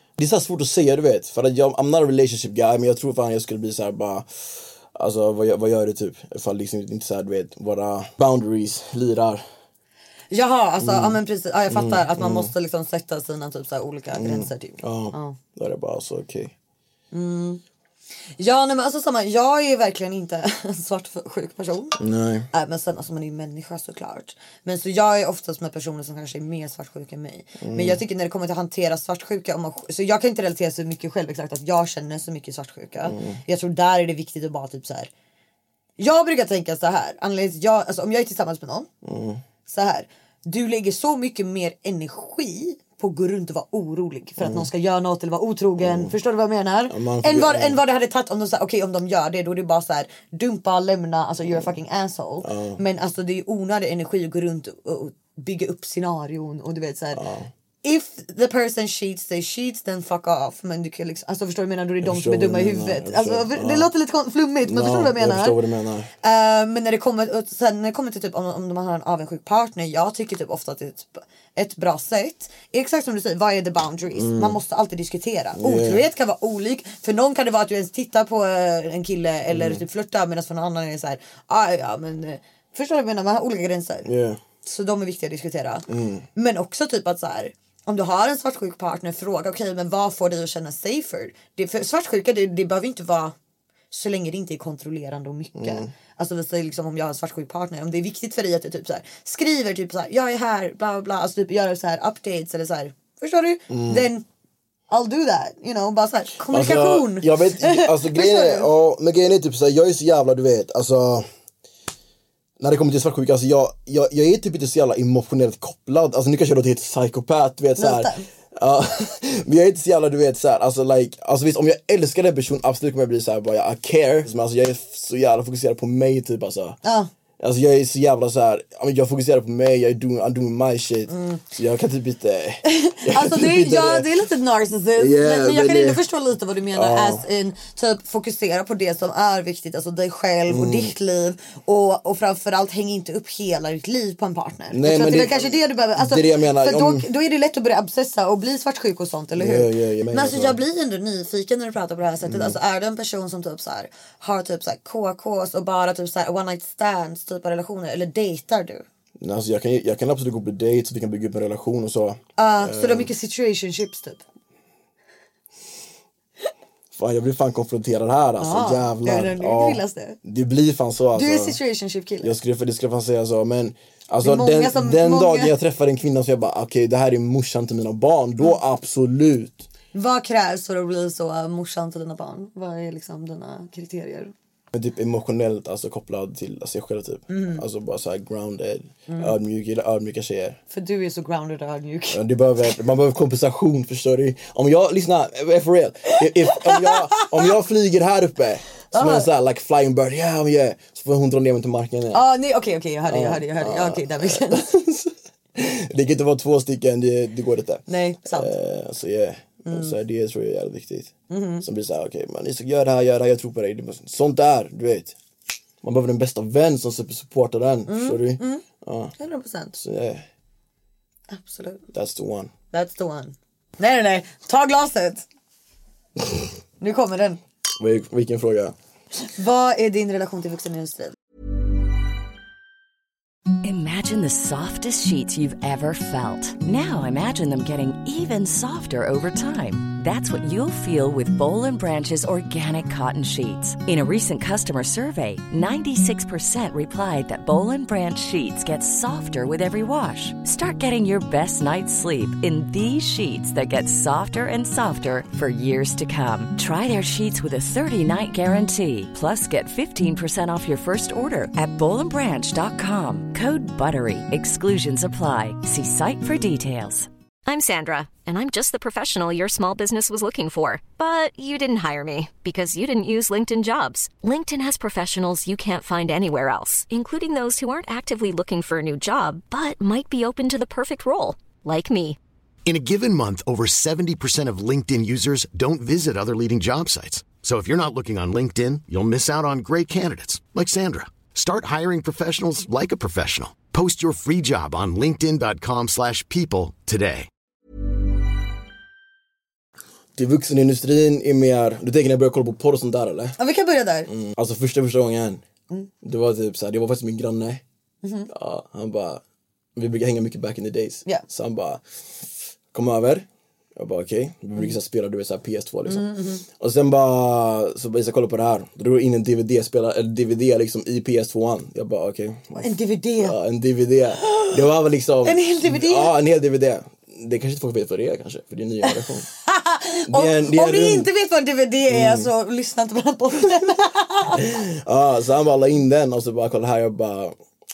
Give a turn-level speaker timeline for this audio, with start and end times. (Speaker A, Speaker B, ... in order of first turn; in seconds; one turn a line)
Speaker A: 0.2-9.4
Speaker B: 10.3-15.4
Speaker A: 10.8-12.5
Speaker A: 14.1-16.5
Speaker B: 17.1-17.6
Speaker B: 18.4-22.0
Speaker A: 22.0-22.5
Speaker B: 22.5-35.1
Speaker A: 27.6-28.0
Speaker A: 33.0-33.4
Speaker B: 36.0-38.9
Speaker A: 39.0-39.4
Speaker B: 39.7-57.2
Speaker A: 44.4-44.7
Speaker A: 45.8-46.1
Speaker A: 46.9-47.8
Speaker A: 52.4-52.8
Speaker A: 57.1-57.5
Speaker B: 57.8-65.6
Speaker A: 62.0-63.9
Speaker A: 64.6-66.1
Speaker B: 66.2-84.1
Speaker A: 74.1-74.6
Speaker A: 75.6-76.0
Speaker A: 79.5-79.8
Speaker A: 84.0-84.4
Speaker B: 84.6-93.3
Speaker A: 85.9-86.2
Speaker B: 93.9-104.2
Speaker A: 95.6-95.9
Speaker A: 103.7-104.1
Speaker B: 104.9-108.7
Speaker A: 106.5-111.3
Speaker A: 112.6-126.8
Speaker B: 117.8-118.3
Speaker B: 126.8-127.1
Speaker A: 127.4-134.1
Speaker B: 131.1-131.4
Speaker B: 132.7-158.9
Speaker A: 135.0-136.0
Speaker A: 136.7-137.2
Speaker A: 140.5-140.9
Speaker A: 144.7-147.1
Speaker A: 149.4-150.6
Speaker A: 152.3-152.6
Speaker A: 159.2-163.1
Speaker B: 162.4-164.2
Speaker A: 166.9-171.6
Speaker B: 168.4-170.2
Speaker B: 171.2-172.3
Speaker A: 172.2-179.7
Speaker B: 174.2-175.6
Speaker B: 179.9-184.3
Speaker A: 184.7-190.6
Speaker B: 187.3-187.6
Speaker B: 189.1-189.4
Speaker B: 190.7-192.2
Speaker A: 192.1-202.2
Speaker B: 196.2-197.5
Speaker B: 198.9-199.3
Speaker B: 202.1-204.7
Speaker A: 203.1-215.2
Speaker B: 207.9-208.5
Speaker B: 209.7-209.9
Speaker B: 211.3-211.7
Speaker A: 215.8-219.1
Speaker B: 217.9-218.7
Speaker B: 219.2-219.8
Speaker A: 219.8-220.3
Speaker B: 221.3-221.9
Speaker A: 221.9-222.5
Speaker B: 222.7-225.2
Speaker B: 226.8-227.4
Speaker A: 227.8-228.7
Speaker B: 229.2-231.2
Speaker C: 233.6-267.1
Speaker D: 267.5-282.2
Speaker E: 282.7-297.3
Speaker A: 300.2-303.4
Speaker B: 303.4-304.1
Speaker A: 304.1-305.4
Speaker A: 306.0-307.6
Speaker B: 308.0-308.3
Speaker A: 308.3-309.2
Speaker A: 309.8-311.8
Speaker A: 312.7-313.3
Speaker A: 313.8-322.7
Speaker B: 315.9-316.4
Speaker B: 322.6-323.4
Speaker A: 323.2-329.3
Speaker B: 324.2-324.6
Speaker B: 325.2-326.1
Speaker B: 328.9-334.6
Speaker A: 330.1-331.1
Speaker A: 331.9-332.3
Speaker A: 334.3-337.4